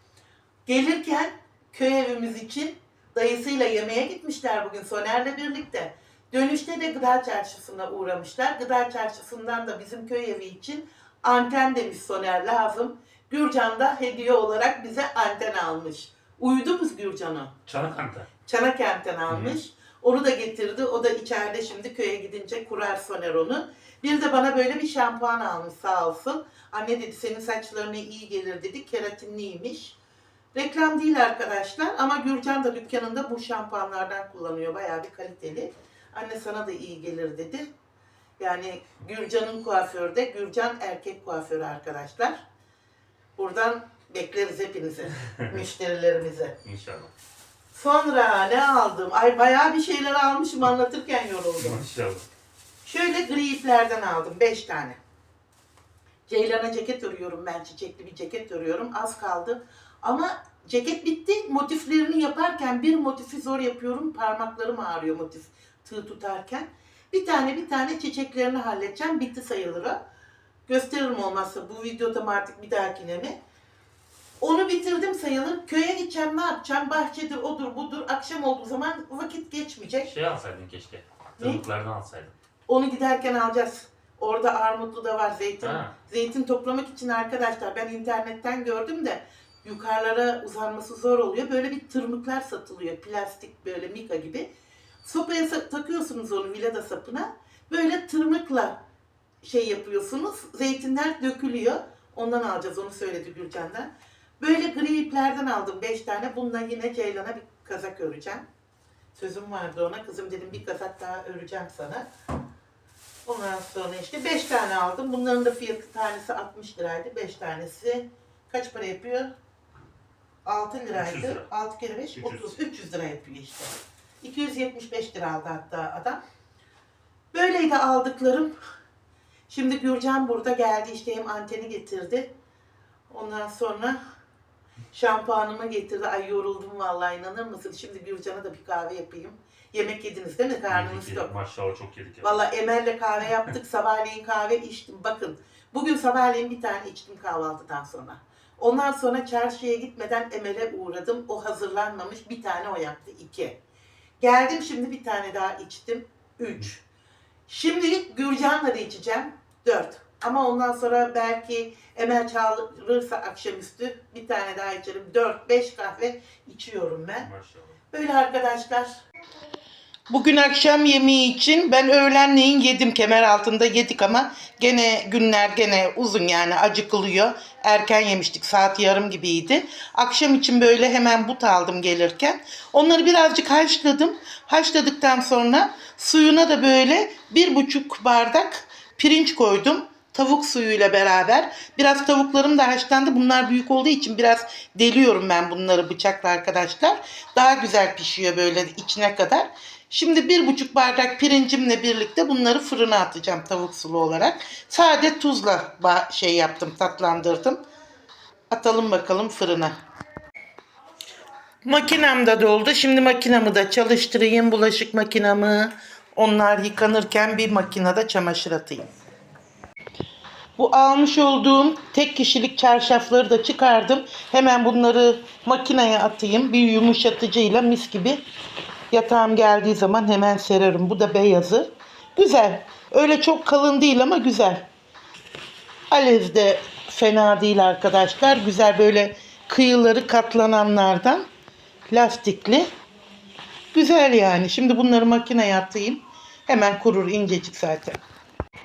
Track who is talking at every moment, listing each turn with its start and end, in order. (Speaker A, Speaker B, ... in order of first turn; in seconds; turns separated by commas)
Speaker A: 0.7-17.6, Speaker B: 17.7-18.3, Speaker A: 18.5-30.0, Speaker B: 19.3-19.6, Speaker A: 30.5-37.7, Speaker A: 38.4-42.4, Speaker A: 43.4-46.5, Speaker B: 46.6-47.1, Speaker A: 47.7-51.9, Speaker B: 51.6-52.3, Speaker A: 52.9-55.0, Speaker A: 56.3-70.0, Speaker A: 70.7-73.4, Speaker A: 74.4-80.1, Speaker B: 80.0-82.3, Speaker A: 82.7-94.5, Speaker B: 85.6-85.9, Speaker A: 95.0-98.8, Speaker A: 99.4-108.4, Speaker A: 109.2-112.1, Speaker A: 113.3-119.3, Speaker A: 120.5-126.2, Speaker B: 121.0-121.5, Speaker B: 122.2-122.5, Speaker A: 127.3-128.5, Speaker A: 129.5-132.3, Speaker A: 133.1-134.0, Speaker A: 134.9-141.3, Speaker B: 140.7-142.4, Speaker A: 142.2-153.6, Speaker A: 154.2-156.8, Speaker A: 157.5-167.3, Speaker B: 167.2-167.8, Speaker A: 167.9-168.9, Speaker A: 170.1-207.6, Speaker A: 208.5-209.7, Speaker A: 211.7-218.9, Speaker A: 220.6-228.2, Speaker A: 228.9-234.7, Speaker A: 235.9-241.2, Speaker A: 241.9-242.7, Speaker A: 243.7-248.0